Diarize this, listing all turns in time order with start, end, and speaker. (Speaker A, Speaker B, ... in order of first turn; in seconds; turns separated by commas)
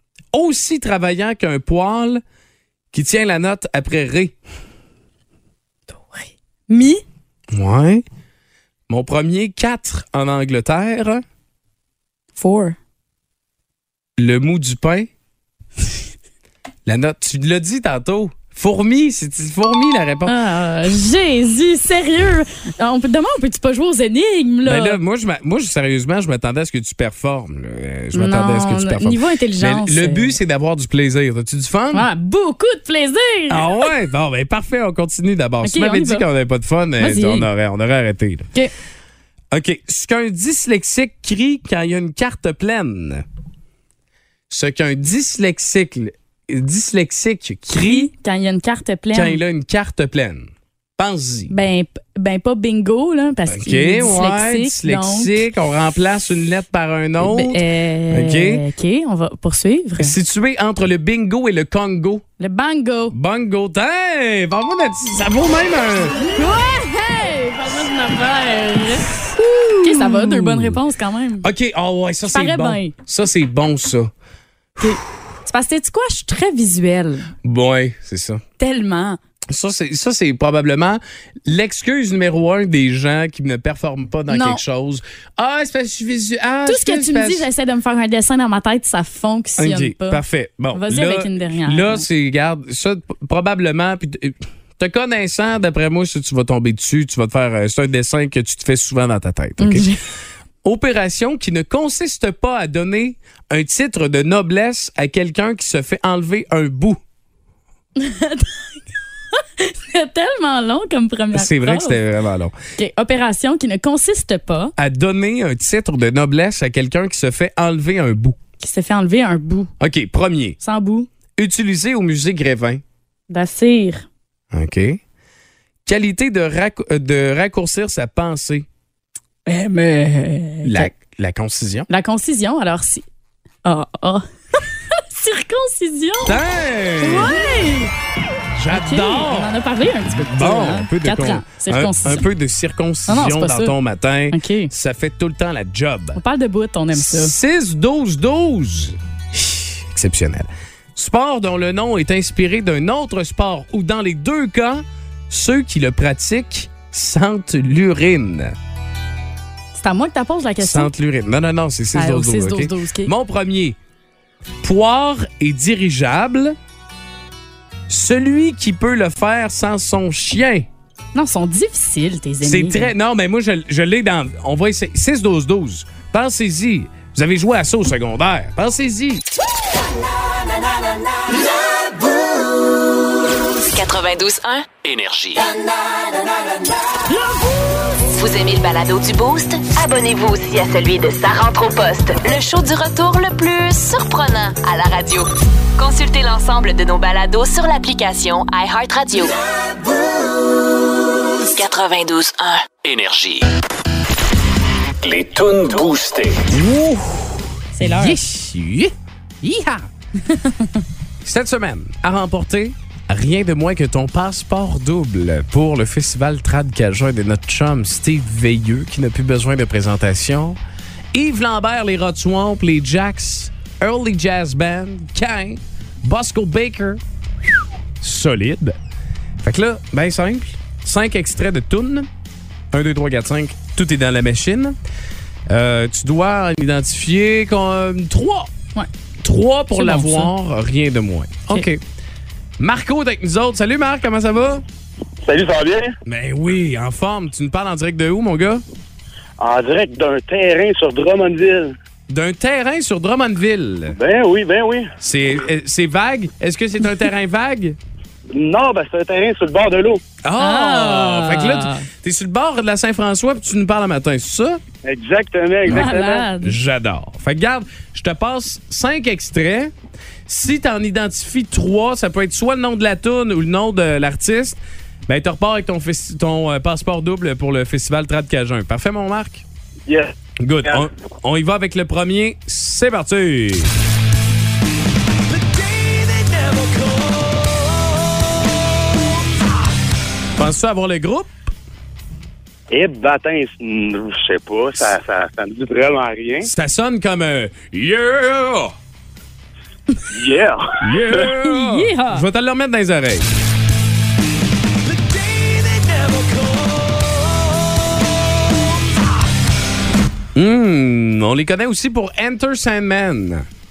Speaker A: 0.3-2.2, Speaker A: 2.9-4.3, Speaker B: 5.9-7.0, Speaker A: 7.5-8.0, Speaker A: 8.9-11.2, Speaker B: 12.3-12.8, Speaker A: 14.2-15.1, Speaker A: 16.9-20.3, Speaker B: 20.3-25.0, Speaker A: 24.6-32.1, Speaker B: 28.1-30.4, Speaker B: 31.9-33.9, Speaker A: 33.5-38.5, Speaker B: 35.6-36.2, Speaker B: 37.0-37.5, Speaker A: 39.5-43.2, Speaker A: 44.5-48.1, Speaker B: 47.7-49.4, Speaker A: 49.1-51.5, Speaker B: 51.5-55.4, Speaker A: 53.5-58.6, Speaker B: 57.2-60.1, Speaker A: 60.0-62.2, Speaker B: 62.4-63.1, Speaker A: 63.1-66.2, Speaker B: 66.2-71.5, Speaker A: 69.3-70.8, Speaker A: 71.4-74.1, Speaker B: 72.3-72.9, Speaker B: 74.8-77.3, Speaker A: 77.4-78.4, Speaker B: 78.6-79.2, Speaker A: 79.5-87.5, Speaker B: 84.3-84.6, Speaker B: 86.7-90.2, Speaker A: 89.6-99.9, Speaker B: 90.7-92.1, Speaker B: 99.6-100.0, Speaker A: 100.6-107.0, Speaker B: 108.0-112.0, Speaker A: 111.3-112.5, Speaker B: 112.8-114.7, Speaker A: 114.8-118.4, Speaker B: 118.6-119.7, Speaker A: 119.8-120.6, Speaker B: 120.6-121.1, Speaker A: 121.4-122.8, Speaker B: 123.3-124.1, Speaker A: 124.5-125.0, Speaker A: 125.8-128.7, Speaker B: 129.4-130.9, Speaker A: 130.6-131.9, Speaker B: 131.9-133.0, Speaker B: 133.6-134.2, Speaker B: 134.9-136.4, Speaker A: 136.2-137.4, Speaker B: 137.0-137.9, Speaker A: 138.6-139.5, Speaker B: 138.7-142.2, Speaker A: 140.1-146.2, Speaker B: 143.1-143.7, Speaker B: 144.3-144.7, Speaker B: 146.1-147.3, Speaker A: 146.9-158.5, Speaker B: 159.7-160.9, Speaker A: 160.6-163.8, Speaker B: 161.9-163.1, Speaker A: 164.6-166.6, Speaker A: 167.9-170.7, Speaker B: 171.1-172.9, Speaker A: 172.4-179.2, Speaker C: 183.7-184.7, Speaker D: 184.8-185.5, Speaker C: 188.0-199.3, Speaker C: 201.5-202.7, Speaker D: 202.8-203.5, Speaker D: 205.0-206.5, Speaker A: 206.4-209.9, Speaker B: 207.7-208.2, Speaker B: 210.3-210.8, Speaker A: 211.2-220.6, Speaker A: 221.1-228.8, Speaker A: 229.4-232.1, Speaker A: 232.7-234.8, Speaker A: 235.5-238.5, Speaker A: 239.2-241.8, Speaker B: 239.7-240.3, Speaker A: 242.6-244.6, Speaker E: 245.2-245.9, Speaker A: 246.0-248.6, Speaker E: 249.4-251.7, Speaker A: 252.1-254.0, Speaker E: 253.9-254.9, Speaker A: 255.0-257.8, Speaker E: 258.3-260.0, Speaker A: 260.2-264.6, Speaker B: 260.4-261.9, Speaker E: 264.8-266.2, Speaker A: 265.7-269.7, Speaker B: 265.7-266.6, Speaker A: 270.3-279.4, Speaker E: 279.9-280.1, Speaker A: 280.4-283.7, Speaker D: 285.9-286.9, Speaker A: 290.4-291.5, Speaker E: 292.7-296.5, Speaker A: 296.4-298.8, Speaker E: 300.1-301.3, Speaker A: 300.8-303.3, Speaker B: 301.1-302.2, Speaker D: 304.9-307.5, Speaker A: 310.3-313.5